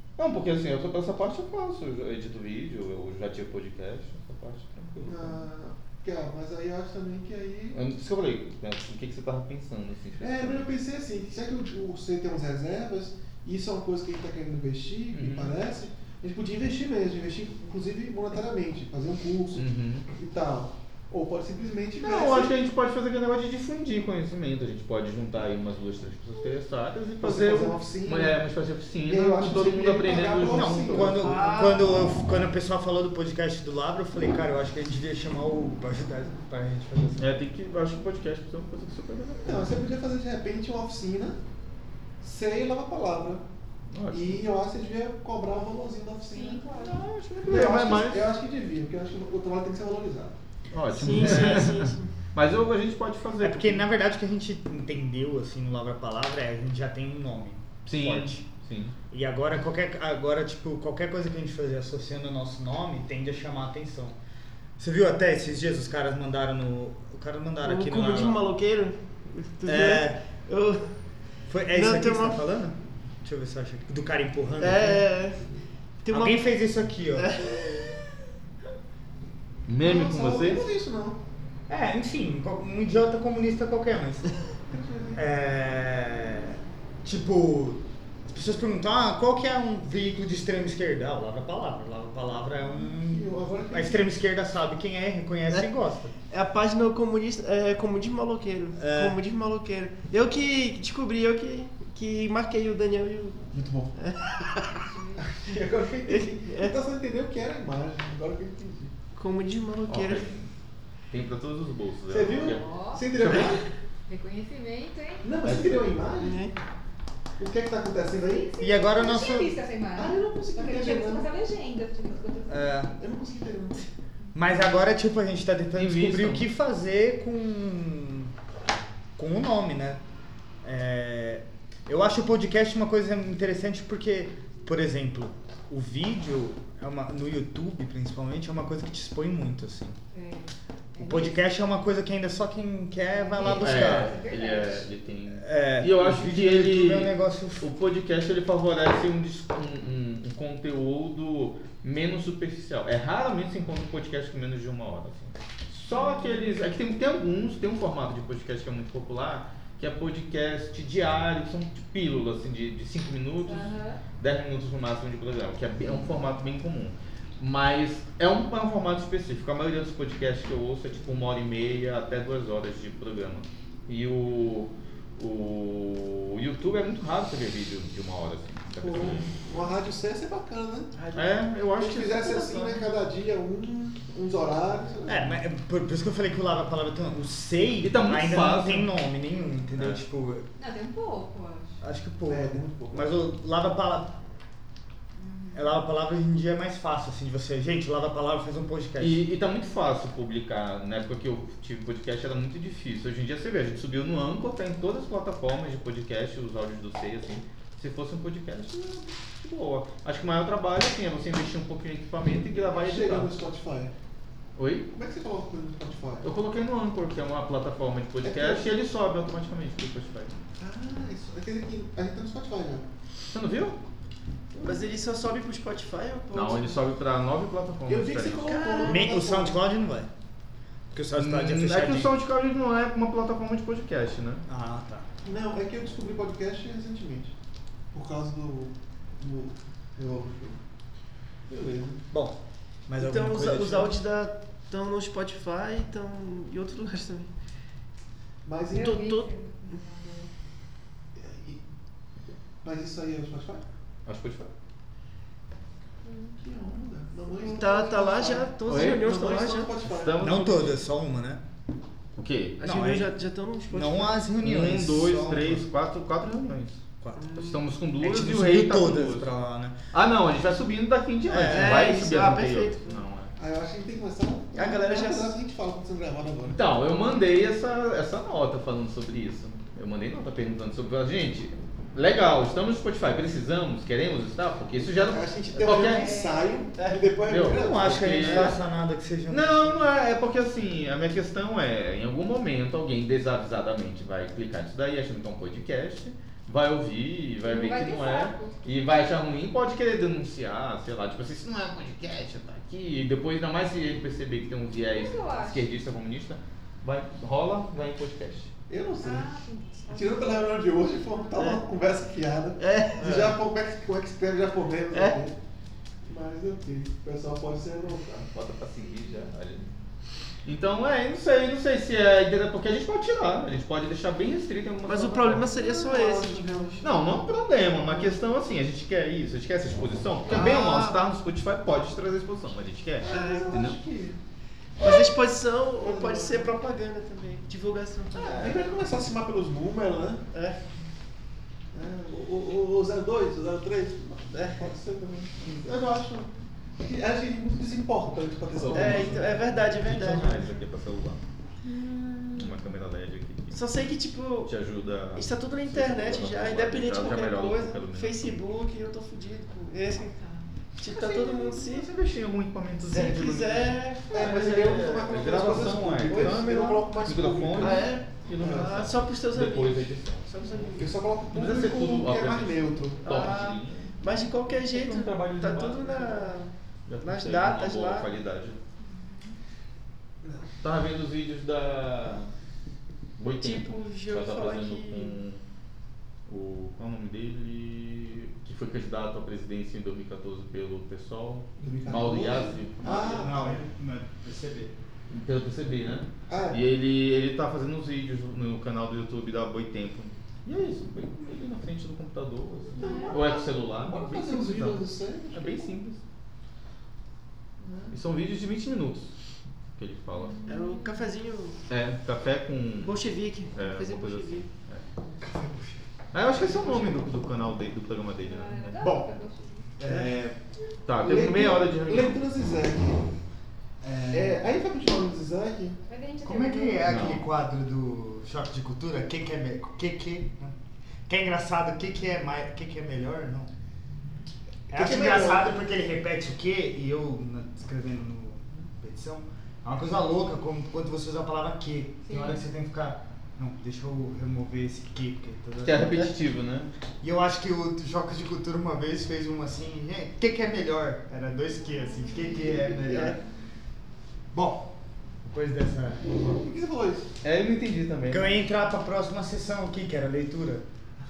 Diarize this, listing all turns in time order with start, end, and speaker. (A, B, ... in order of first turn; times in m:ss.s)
0:00.2-0:05.4 A
0:05.0-0:07.8 B
0:07.7-0:10.7 A
0:10.2-0:22.5 B
0:15.1-0:15.6 A
0:19.5-0:20.1 A
0:22.0-0:31.4 A
0:27.2-0:28.4 B
0:29.0-0:31.2 B
0:30.5-0:37.3 C
0:31.2-0:31.8 D
0:37.2-0:39.7 A
0:39.4-0:41.4 B
0:42.2-0:43.4 B
0:43.9-0:44.4 A
0:44.1-0:46.8 B
0:46.3-0:47.0 E
0:46.7-0:48.3 A
0:47.4-0:50.4 B
0:50.7-0:53.8 A
0:50.9-0:52.1 D
0:53.4-0:58.4 C
0:57.9-0:58.9 A
0:59.1-1:04.2 C
1:04.8-1:08.4 C
1:07.6-1:10.9 D
1:09.6-1:10.2 C
1:11.5-1:15.0 C
1:11.7-1:12.4 D
1:14.6-1:15.4 D
1:16.0-1:16.4 D
1:16.1-1:17.3 C
1:17.2-1:18.0 D
1:19.7-1:20.6 A
1:19.8-1:21.2 B
1:21.7-1:24.3 C
1:24.7-1:25.2 B
1:25.2-1:36.1 C
1:32.9-1:34.1 B
1:36.3-1:44.7 D
1:38.8-1:39.2 C
1:43.5-1:43.9 B
1:44.7-1:45.3 E
1:45.2-1:48.9 B
1:46.0-1:46.8 D
1:49.1-1:50.3 D
1:49.9-1:50.5 A
1:51.1-1:52.6 A
1:52.1-1:53.6 B
1:52.4-1:53.0 E
1:53.2-1:53.5 A
1:53.2-1:53.6 D
1:54.1-1:55.3 E
1:55.2-1:56.4 B
1:55.4-1:56.0 A
1:56.2-1:56.5 D
1:57.4-1:58.5 B
1:58.1-2:02.7 E
1:58.6-1:59.6 C
1:59.9-2:01.3 B
2:02.5-2:02.9 C
2:03.0-2:03.9 B
2:04.3-2:08.3 C
2:05.8-2:06.5 A
2:09.2-2:10.0 C
2:10.6-2:20.0 C
2:20.1-2:21.4 E
2:21.0-2:24.1 C
2:23.2-2:24.8 E
2:23.4-2:59.3 A
2:25.3-2:27.6 C
2:35.9-2:36.5 E
2:43.5-2:44.0 E
2:58.8-3:01.0 B
3:01.0-3:01.4 D
3:01.1-3:02.9 A
3:01.8-3:05.3 B
3:05.1-3:10.5 C
3:07.8-3:08.9 A
3:10.6-3:11.8 E
3:11.8-3:14.2 C
3:12.3-3:13.1 B
3:15.2-3:15.7 E
3:15.5-3:19.2 C
3:19.0-3:33.3 A
3:32.6-3:33.9 B
3:34.6-3:34.9 A
3:34.9-3:36.3 B
3:36.2-3:40.3 A
3:38.2-3:38.6 B
3:40.6-3:42.8 B
3:43.3-3:43.8 A
3:44.6-3:46.8 D
3:46.3-3:48.5 A
3:47.9-3:49.6 B
3:48.5-3:49.0 E
3:48.5-3:50.1 C
3:50.9-3:52.1 C
3:51.2-3:54.4 A
3:54.5-3:55.1 C
3:55.2-3:57.3 B
3:57.9-4:00.6 B
4:01.5-4:02.0 B
4:02.1-4:04.0 C
4:03.0-4:07.3 D
4:08.4-4:09.0 B
4:08.7-4:10.3 E
4:08.8-4:09.3 D
4:11.2-4:11.6 B
4:12.6-4:13.6 B
4:14.0-4:14.5 A
4:16.0-4:16.3 E
4:16.4-4:20.3 B
4:17.4-4:17.9 E
4:17.4-4:19.7 D
4:18.6-4:19.1 A
4:19.8-4:20.8 A
4:20.2-4:21.4 C
4:22.2-4:22.6 A
4:22.6-4:24.2 D
4:22.6-4:23.1 C
4:23.7-4:25.6 C
4:24.4-4:29.3 A
4:27.0-4:27.3 C
4:27.2-4:27.6 D
4:28.0-4:29.8 C
4:29.9-4:33.3 A
4:31.3-4:31.9 C
4:31.5-4:33.0 D
4:33.4-4:36.6 B
4:34.5-4:35.3 D
4:36.5-4:46.2 A
4:44.8-4:48.5 B
4:45.7-4:46.7 E
4:47.2-4:48.6 A
4:47.4-4:49.8 C
4:49.3-5:08.5 A
4:57.4-4:58.7 E
5:04.9-5:05.7 E
5:08.7-5:09.3 B
5:09.0-5:11.5 E
5:09.9-5:15.4 B
5:11.4-5:11.6 D
5:12.6-5:13.4 D
5:14.9-5:15.2 D
5:16.0-5:18.3 B
5:18.3-5:19.7 A
5:20.4-5:25.5 A
5:24.8-5:26.8 D
5:25.4-5:28.2 B
5:26.8-5:33.8 A
5:30.3-5:31.0 D
5:33.0-5:34.2 B
5:33.0-5:33.7 D
5:34.8-5:38.7 D
5:35.8-5:36.5 B
5:38.1-5:40.2 B
5:40.3-5:40.6 D
5:41.7-5:46.3 B
5:44.3-5:44.7 D
5:46.8-5:49.3 B
5:48.5-5:51.2 A
5:48.7-5:50.5 D
5:50.2-5:50.5 B
5:51.6-5:52.6 D
5:52.3-5:53.6 A
5:53.5-5:54.5 D
5:54.4-5:58.4 A
5:55.1-6:00.2 D
6:00.1-6:00.5 E
6:00.8-6:01.9 D
6:00.9-6:10.6 A
6:02.8-6:05.0 D
6:04.1-6:08.8 B
6:06.1-6:06.7 D
6:07.6-6:10.9 D
6:10.7-6:13.1 B
6:11.3-6:14.0 A
6:13.0-6:18.1 D
6:14.7-6:18.6 A
6:18.8-6:19.4 E
6:20.2-6:20.5 B
6:20.6-6:22.3 A
6:23.2-6:25.4 A
6:23.4-6:25.2 D
6:26.2-6:33.3 A
6:31.6-6:33.7 B
6:32.8-6:34.7 C
6:35.1-6:46.0 A
6:36.3-6:36.6 B
6:42.8-6:45.7 B
6:42.8-6:43.2 E
6:47.6-6:47.9 B
6:47.9-6:49.1 A
6:49.8-6:50.4 A
6:50.1-6:51.0 E
6:50.5-6:51.6 D
6:51.7-6:53.0 A
6:52.8-6:54.5 D
6:53.5-6:54.8 A
6:55.2-6:55.8 C
6:56.1-6:58.9 A
6:58.2-6:59.6 E
6:58.8-6:59.1 C
6:59.8-7:00.2 C
6:59.9-7:00.3 A
6:59.9-7:00.2 B
7:00.8-7:02.2 A
7:01.0-7:03.0 B
7:03.8-7:04.5 C
7:04.1-7:05.8 B
7:05.9-7:06.9 E
7:06.2-7:10.6 C
7:06.8-7:07.2 A
7:11.1-7:13.5 C
7:14.7-7:15.5 B
7:14.7-7:25.9 C
7:22.1-7:22.3 E
7:25.6-7:26.7 A
7:27.0-7:33.2 C
7:32.7-7:33.2 D
7:34.3-7:34.7 C
7:35.2-7:36.1 C
7:36.1-7:37.1 B
7:37.2-7:38.4 A
7:38.1-7:40.6 C